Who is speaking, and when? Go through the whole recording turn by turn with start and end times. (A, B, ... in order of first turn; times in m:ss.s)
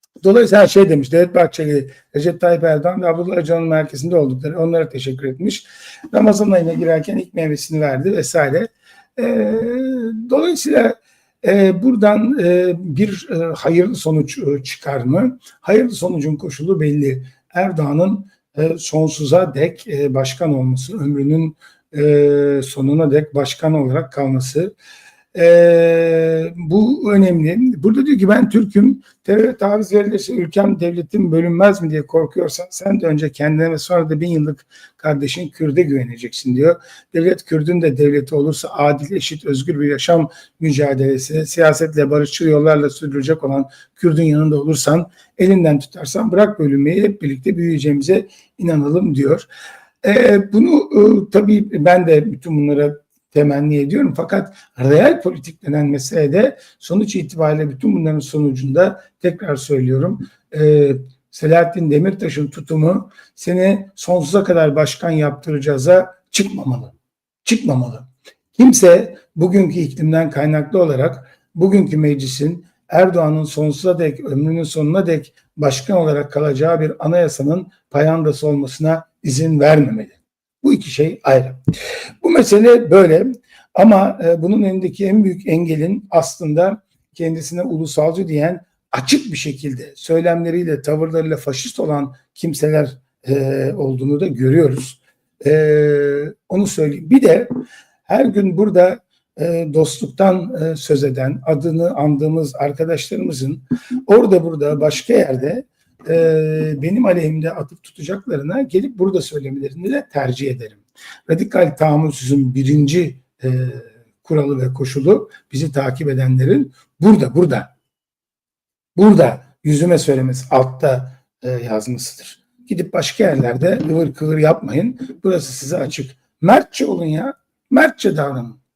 0:00.2-0:24.8 A
0:25.3-0:49.5 A
0:50.0-1:21.6 A
1:22.2-1:37.5 A
1:38.1-1:57.7 A
1:59.0-2:08.6 A